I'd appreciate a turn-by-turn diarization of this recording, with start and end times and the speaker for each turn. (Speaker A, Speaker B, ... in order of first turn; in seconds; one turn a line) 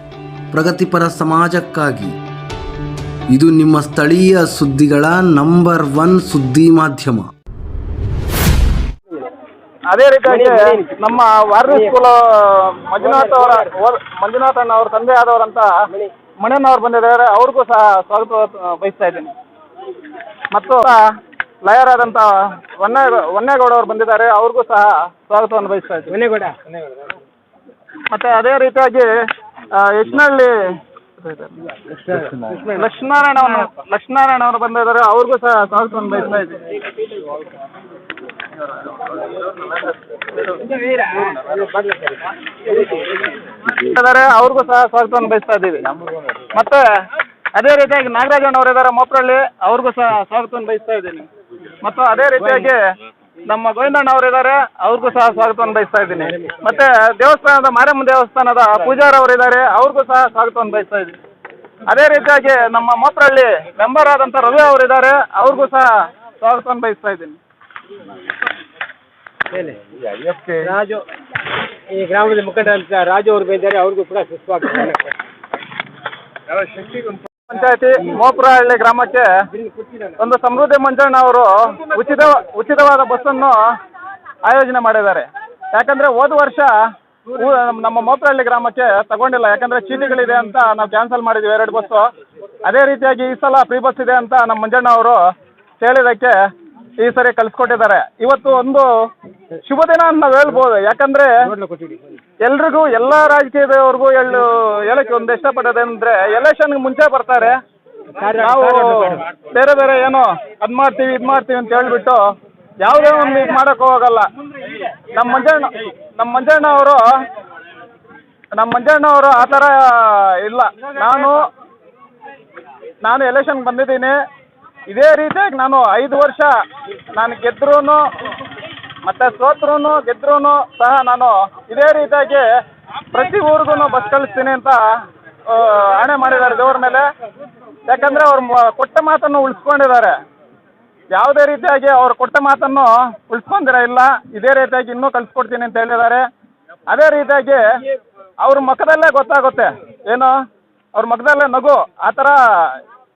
Speaker A: 0.5-2.2
Speaker A: 3.3-7.3
Speaker B: 9.9-15.7
Speaker C: 10.3-11.0
Speaker C: 11.7-11.9
Speaker C: 13.0-13.7
Speaker B: 16.4-19.3
Speaker B: 20.5-21.0
Speaker B: 21.6-26.2
Speaker C: 26.1-27.2
Speaker B: 28.1-29.1
Speaker B: 29.8-30.5
Speaker B: 31.2-31.6
Speaker C: 31.9-32.9
Speaker B: 32.7-36.6
Speaker B: 38.7-39.9
Speaker C: 40.5-43.1
Speaker B: 41.2-41.6
Speaker B: 43.7-45.9
Speaker B: 46.5-46.8
Speaker B: 47.5-51.3
Speaker B: 51.8-52.8
Speaker C: 52.4-52.7
Speaker B: 53.5-61.2
Speaker C: 56.2-56.6
Speaker B: 61.9-67.4
Speaker C: 69.5-69.8
Speaker C: 70.5-71.0
Speaker C: 71.9-75.1
Speaker B: 76.8-79.3
Speaker C: 79.5-80.2
Speaker B: 80.2-83.6
Speaker B: 84.5-86.7
Speaker B: 87.3-92.1
Speaker B: 92.7-95.2
Speaker B: 95.8-96.3
Speaker B: 97.0-98.9
Speaker B: 99.7-101.3
Speaker C: 101.4-102.2
Speaker B: 102.4-107.6
Speaker C: 108.2-109.2
Speaker B: 108.4-112.2
Speaker B: 112.8-114.3
Speaker B: 115.1-117.0
Speaker B: 118.6-121.4
Speaker B: 123.0-124.2
Speaker B: 124.9-126.5
Speaker B: 127.2-128.0
Speaker B: 129.1-132.4
Speaker B: 133.1-134.8
Speaker B: 135.5-137.1
Speaker B: 137.9-140.2
Speaker B: 141.1-146.2
Speaker B: 146.9-147.6
Speaker B: 148.4-150.3
Speaker B: 150.9-152.8